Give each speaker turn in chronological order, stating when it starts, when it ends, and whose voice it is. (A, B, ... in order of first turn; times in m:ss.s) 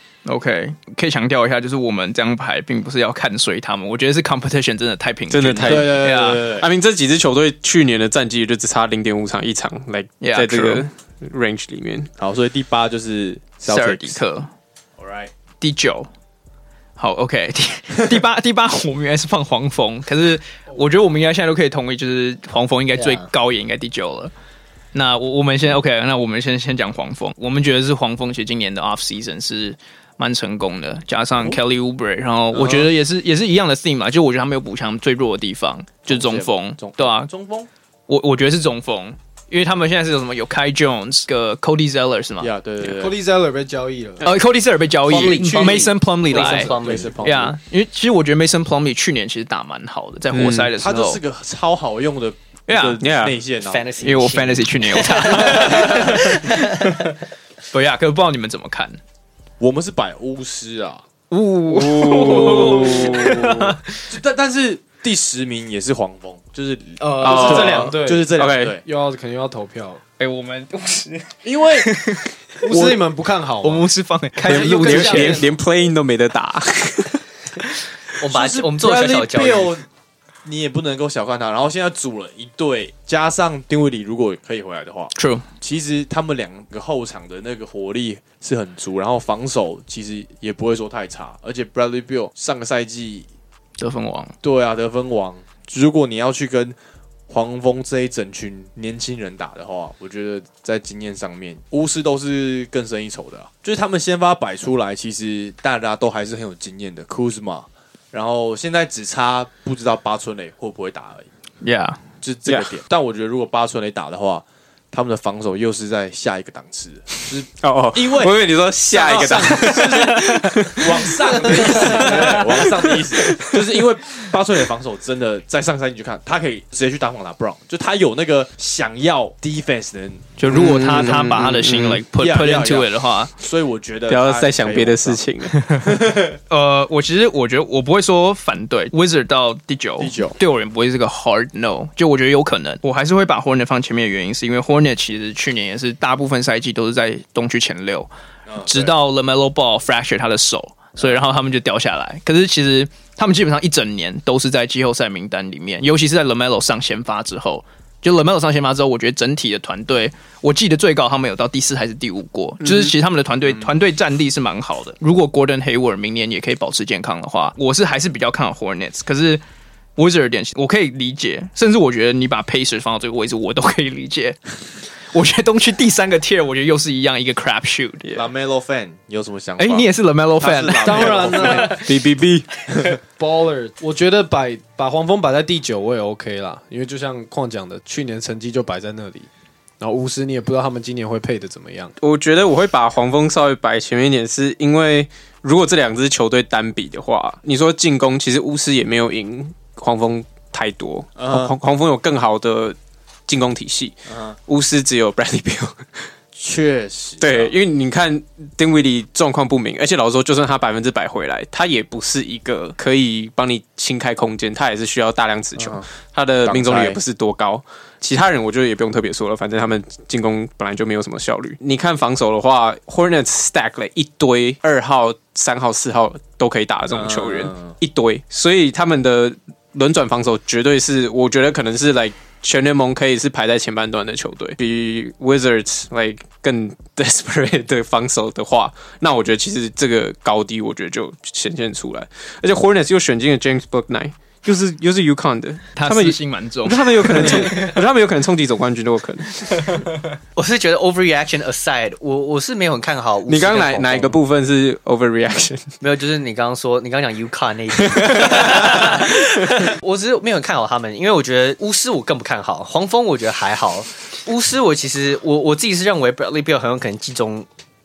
0:00.2-0:06.5 A
0:05.3-0:12.1 B
0:05.6-0:06.7 C
0:10.2-0:10.9 A
0:12.2-0:14.2 C
0:13.6-0:14.5 A
0:15.0-0:15.3 C
0:15.6-0:16.1 A
0:17.0-0:24.3 A
0:23.0-0:23.3 D
0:24.9-0:37.3 A
0:32.5-0:32.9 C
0:36.1-0:37.7 C
0:38.1-0:42.5 A
0:42.4-0:43.2 C
0:42.8-0:44.3 E
0:44.2-0:51.2 A
0:45.1-0:47.2 D
0:46.3-0:47.6 C
0:50.3-0:50.7 B
0:50.8-0:53.8 C
0:52.7-0:53.0 A
0:53.0-0:53.4 B
0:53.6-0:57.1 D
0:54.0-0:57.1 A
0:57.7-0:59.0 A
0:59.6-1:01.0 C
1:01.3-1:04.0 A
1:01.6-1:03.7 B
1:04.1-1:08.8 C
1:07.0-1:10.0 E
1:07.0-1:07.9 A
1:07.2-1:08.8 B
1:10.2-1:12.3 A
1:11.4-1:11.9 C
1:12.6-1:15.6 E
1:12.7-1:13.0 C
1:13.6-1:15.5 A
1:14.5-1:17.2 B
1:18.2-1:19.8 D
1:18.3-1:19.8 C
1:20.4-1:33.3 C
1:25.1-1:25.4 A
1:33.8-1:34.3 A
1:34.4-1:36.8 C
1:37.3-1:51.3 C
1:51.6-1:52.0 A
1:52.2-1:58.3 C
1:57.6-2:03.6 B
1:58.9-2:11.3 C
1:59.1-1:59.8 E
2:01.4-2:02.3 E
2:10.4-2:13.3 A
2:10.5-2:12.0 B
2:12.2-2:15.2 C
2:14.1-2:15.5 B
2:15.6-2:15.8 A
2:15.8-2:16.4 C
2:16.5-2:28.1 A
2:20.0-2:20.4 C
2:28.5-2:28.9 C
2:28.6-2:49.4 A
2:42.6-2:42.9 B
2:50.0-2:58.0 A
2:58.1-3:01.8 C
2:59.6-3:01.7 A
3:00.8-3:01.9 E
3:01.7-3:02.5 B
3:02.7-3:03.0 C
3:03.2-3:09.3 E
3:09.8-3:11.9 E
3:12.0-3:26.0 B
3:21.2-3:21.5 C
3:24.1-3:24.3 C
3:26.3-3:27.5 C
3:27.2-4:09.7 B
3:35.6-3:35.9 C
3:36.4-3:37.0 C
3:46.9-3:47.7 C
4:05.8-4:07.7 A
4:10.4-4:14.2 D
4:13.3-4:15.7 B
4:15.8-4:27.5 D
4:17.8-4:19.1 B